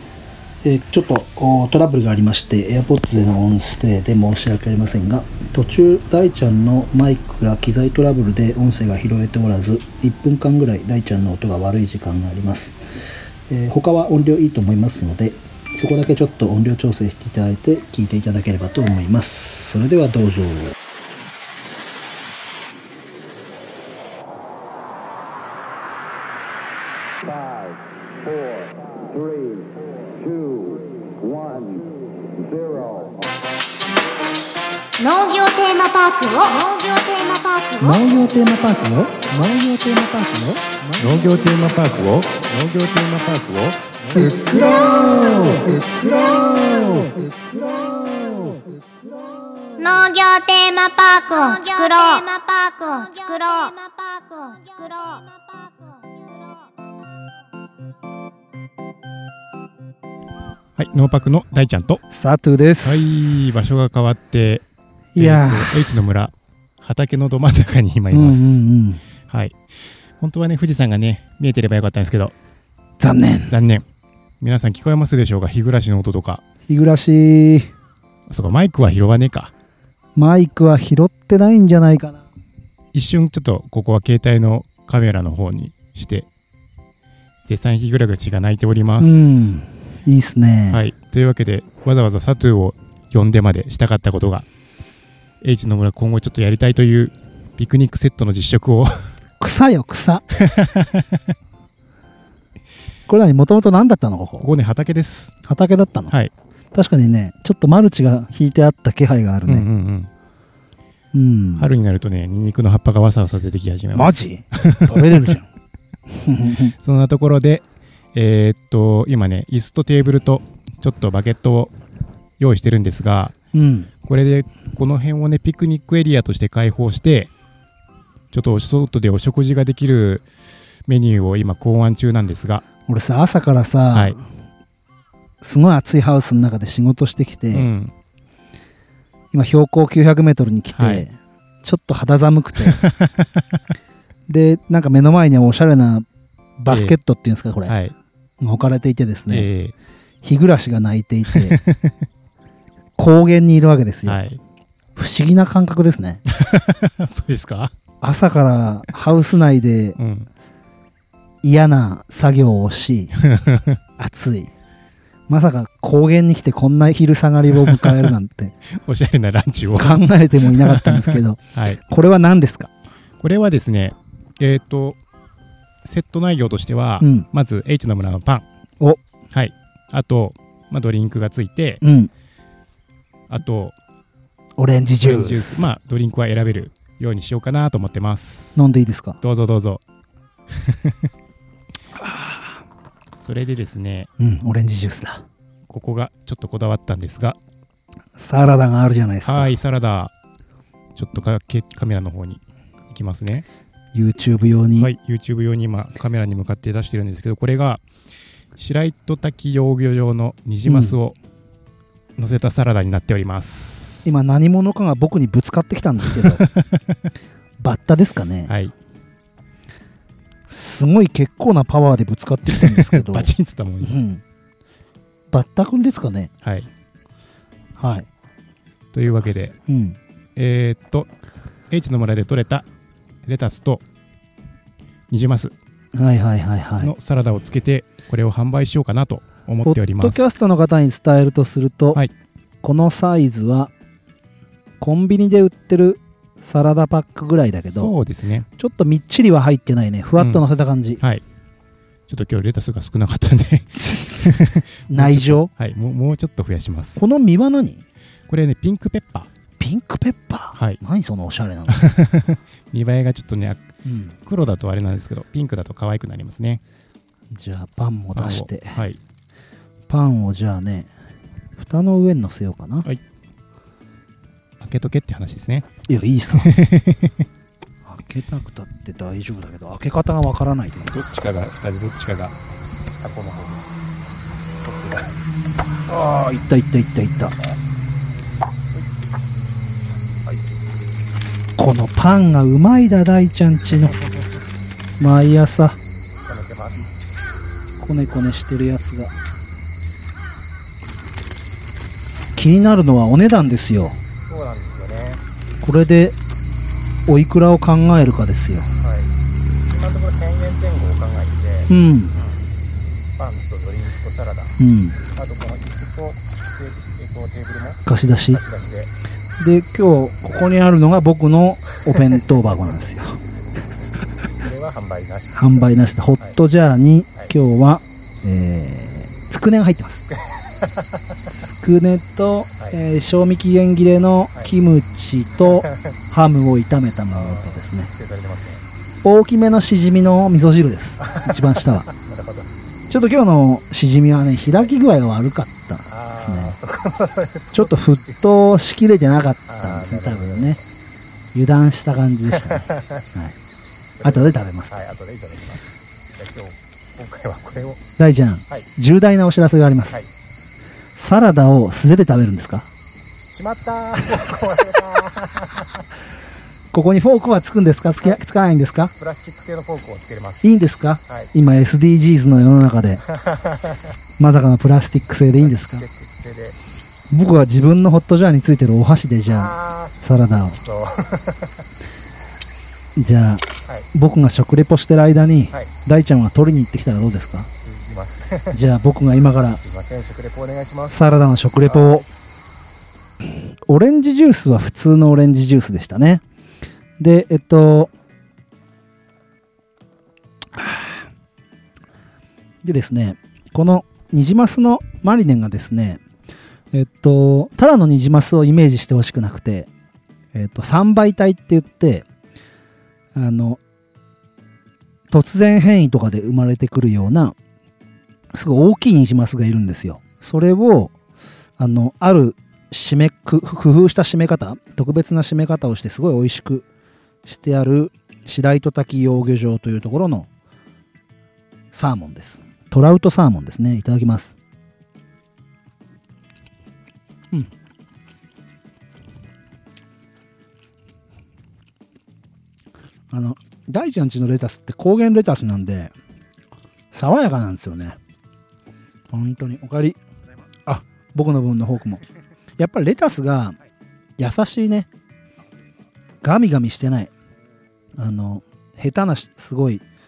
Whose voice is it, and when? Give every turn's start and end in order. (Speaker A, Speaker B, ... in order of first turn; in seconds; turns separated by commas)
Speaker A: 0.6-12.8, Speaker A: 13.5-20.7, Speaker B: 35.0-38.0, Speaker A: 37.8-41.1, Speaker C: 41.0-45.9, Speaker A: 44.1-48.6, Speaker B: 49.8-55.3, Speaker C: 60.8-62.0, Speaker A: 62.1-63.2, Speaker C: 62.8-64.6, Speaker A: 65.1-65.8, Speaker C: 65.2-68.6, Speaker A: 68.1-69.0, Speaker C: 69.3-72.3, Speaker A: 73.0-73.5, Speaker C: 73.5-73.8, Speaker C: 74.4-76.4, Speaker A: 76.7-77.7, Speaker C: 78.3-79.5, Speaker A: 80.2-82.2, Speaker C: 82.9-86.3, Speaker C: 87.4-89.5, Speaker A: 89.0-90.8, Speaker C: 90.7-94.5, Speaker C: 95.4-99.1, Speaker A: 99.4-100.2, Speaker C: 100.3-101.3, Speaker A: 103.1-104.5, Speaker C: 104.4-105.3, Speaker A: 105.4-106.1, Speaker A: 106.7-109.7, Speaker C: 109.5-110.1, Speaker A: 111.1-111.7, Speaker C: 111.6-115.3, Speaker A: 113.9-115.5, Speaker A: 116.1-116.7, Speaker C: 116.8-121.7, Speaker C: 122.4-123.3, Speaker A: 123.5-123.9, Speaker C: 124.0-127.3, Speaker C: 128.3-130.2, Speaker C: 130.8-132.6, Speaker A: 132.9-134.2, Speaker A: 135.4-137.7, Speaker C: 137.5-137.9, Speaker A: 139.3-142.8, Speaker C: 140.7-141.0, Speaker C: 142.7-143.6, Speaker A: 144.3-146.1, Speaker A: 146.6-147.7, Speaker C: 146.7-146.9, Speaker C: 147.7-147.9, Speaker A: 148.4-149.4, Speaker C: 149.3-149.7, Speaker A: 150.2-151.6, Speaker C: 151.3-152.1, Speaker A: 153.0-154.2, Speaker C: 154.1-154.4, Speaker A: 154.9-156.2, Speaker C: 156.3-157.7, Speaker A: 158.0-160.0, Speaker C: 160.0-160.3, Speaker A: 161.4-163.1, Speaker C: 163.2-163.8, Speaker A: 164.0-164.5, Speaker A: 165.3-168.5, Speaker C: 167.6-168.0, Speaker C: 168.7-171.8, Speaker A: 169.8-172.7, Speaker C: 173.2-175.0, Speaker C: 175.8-178.4, Speaker A: 177.0-177.3, Speaker C: 179.3-181.8, Speaker A: 181.8-182.1, Speaker C: 183.3-183.7, Speaker A: 184.6-185.7, Speaker C: 185.0-188.6, Speaker A: 188.6-189.2, Speaker C: 189.2-189.8, Speaker C: 190.5-191.1, Speaker A: 192.0-192.6, Speaker C: 193.1-194.1, Speaker A: 194.2-195.2, Speaker C: 195.7-197.4, Speaker A: 198.2-199.5, Speaker C: 199.2-200.1, Speaker C: 200.9-203.4, Speaker A: 203.9-204.9, Speaker C: 204.8-207.8, Speaker C: 208.6-211.2, Speaker A: 210.6-211.0, Speaker C: 212.2-214.1, Speaker A: 214.0-216.4, Speaker C: 216.1-217.0, Speaker A: 217.6-218.5, Speaker C: 218.5-218.7, Speaker A: 220.5-223.3, Speaker C: 222.5-224.0, Speaker A: 223.8-224.2, Speaker A: 225.3-226.3, Speaker C: 226.4-226.7, Speaker A: 227.8-228.1, Speaker C: 228.9-229.6, Speaker A: 229.7-230.0, Speaker C: 230.3-231.1, Speaker C: 231.7-232.7, Speaker C: 233.2-233.8, Speaker C: 235.1-235.5, Speaker A: 235.9-236.9, Speaker C: 236.8-240.3, Speaker A: 239.6-242.0, Speaker A: 242.6-243.7, Speaker A: 244.8-247.9, Speaker C: 247.6-248.5, Speaker A: 248.6-251.0, Speaker C: 250.2-250.4, Speaker C: 252.1-257.0, Speaker A: 254.9-255.5, Speaker A: 256.9-257.8, Speaker C: 258.3-259.3, Speaker A: 259.6-261.9, Speaker C: 261.7-263.6, Speaker A: 263.8-264.1, Speaker C: 264.2-266.6, Speaker A: 267.3-268.8, Speaker C: 268.1-269.0, Speaker A: 269.9-270.9, Speaker A: 271.6-272.9, Speaker C: 274.6-275.7, Speaker A: 275.9-276.5, Speaker C: 276.3-277.3, Speaker A: 277.9-280.9, Speaker C: 280.9-282.4, Speaker C: 282.9-283.8, Speaker C: 284.6-285.2, Speaker A: 285.9-287.4, Speaker A: 291.6-294.0, Speaker A: 295.0-295.8, Speaker C: 296.2-296.9, Speaker A: 297.8-299.1, Speaker A: 302.4-304.0, Speaker C: 304.2-305.2, Speaker A: 305.6-306.1, Speaker A: 307.1-308.7, Speaker C: 308.8-309.1, Speaker C: 309.6-312.4, Speaker A: 311.7-312.2, Speaker C: 313.1-318.9, Speaker A: 314.6-315.0, Speaker A: 317.8-318.4, Speaker A: 319.4-323.2, Speaker C: 324.3-326.4, Speaker A: 325.3-330.1, Speaker A: 331.3-337.9, Speaker C: 335.5-335.8, Speaker C: 337.1-338.6, Speaker A: 339.0-341.9, Speaker C: 341.2-342.5, Speaker A: 342.9-346.6, Speaker C: 345.9-347.7, Speaker A: 347.5-350.6, Speaker C: 349.5-350.6, Speaker A: 351.3-353.4, Speaker C: 354.0-355.6, Speaker A: 354.0-354.8, Speaker C: 356.1-357.8, Speaker A: 358.0-360.0, Speaker A: 360.9-362.7, Speaker C: 363.3-365.8, Speaker A: 366.7-368.9, Speaker C: 368.9-370.4, Speaker A: 370.4-373.0, Speaker C: 373.1-373.8, Speaker A: 374.2-375.9, Speaker C: 375.5-376.6, Speaker A: 377.1-380.6, Speaker C: 379.3-381.5, Speaker A: 382.9-387.5, Speaker C: 387.6-388.6, Speaker A: 388.5-389.6, Speaker C: 389.6-392.0, Speaker A: 390.9-392.1, Speaker A: 393.3-396.2, Speaker A: 397.0-397.9, Speaker A: 400.6-400.9, Speaker A: 402.6-406.0, Speaker A: 406.7-409.7, Speaker A: 410.3-412.0, Speaker A: 413.1-413.6, Speaker A: 415.1-417.4, Speaker A: 418.3-420.9, Speaker A: 421.6-426.6, Speaker A: 427.2-430.3, Speaker A: 431.7-434.3, Speaker A: 443.1-445.9, Speaker A: 446.9-448.0, Speaker A: 449.1-450.0, Speaker A: 450.6-452.0, Speaker A: 452.6-453.6, Speaker A: 454.2-454.9, Speaker A: 456.2-457.1, Speaker A: 458.0-459.8